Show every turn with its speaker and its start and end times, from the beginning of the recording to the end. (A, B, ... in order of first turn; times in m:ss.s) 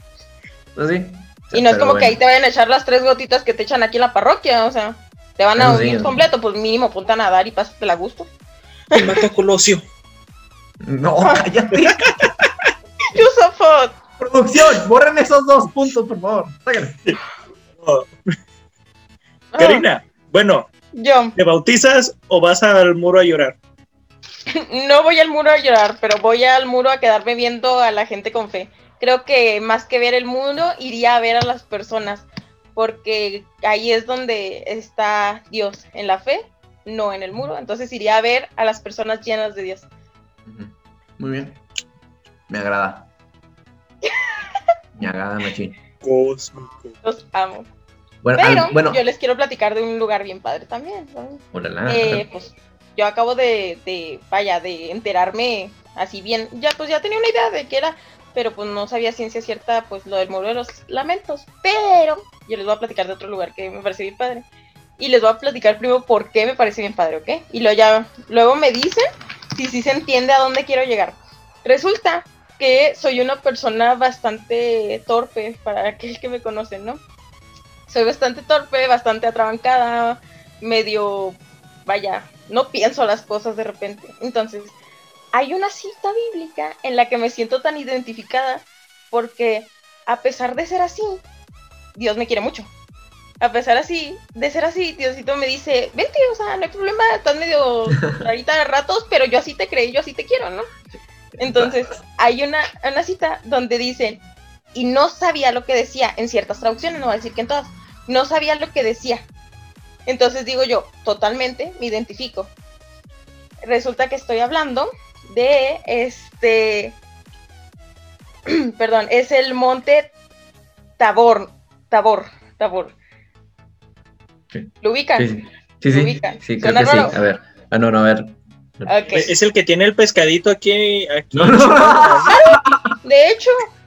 0:00.8-0:02.2 A
0:01.5-0:08.3 B
0:05.6-0:06.2 A
0:08.9-0:09.8 C
0:10.8-0:12.1 A
0:11.8-0:12.5 C
0:13.1-0:14.0 B
0:14.2-0:17.0 A
0:17.8-0:18.1 C
0:19.5-0:19.9 B
0:19.6-0:20.7 C
0:20.9-0:21.3 B
0:21.4-0:23.6 C
0:24.6-0:39.8 B
0:40.4-0:41.6 A
0:42.5-0:43.1 A
0:44.0-0:44.3 B
0:45.0-0:45.8 A
0:46.0-0:47.0 C
0:47.0-0:47.7 B
0:48.2-0:49.0 A
0:48.4-1:04.4 B
0:51.5-0:52.2 A
1:05.0-1:09.0 B
1:09.6-1:17.0 B
1:17.9-1:24.8 B
1:25.3-1:31.2 B
1:31.9-1:32.7 B
1:33.4-1:40.7 B
1:41.4-1:42.0 A
1:41.4-1:44.2 B
1:44.7-1:49.2 B
1:50.0-1:52.5 B
1:53.6-1:57.0 B
1:58.5-2:00.1 B
2:01.0-2:02.9 B
2:04.5-2:09.0 A
2:04.8-2:05.3 B
2:05.9-2:07.1 B
2:08.8-2:09.3 B
2:09.1-2:12.4 C
2:11.3-2:12.9 A
2:12.3-2:13.7 B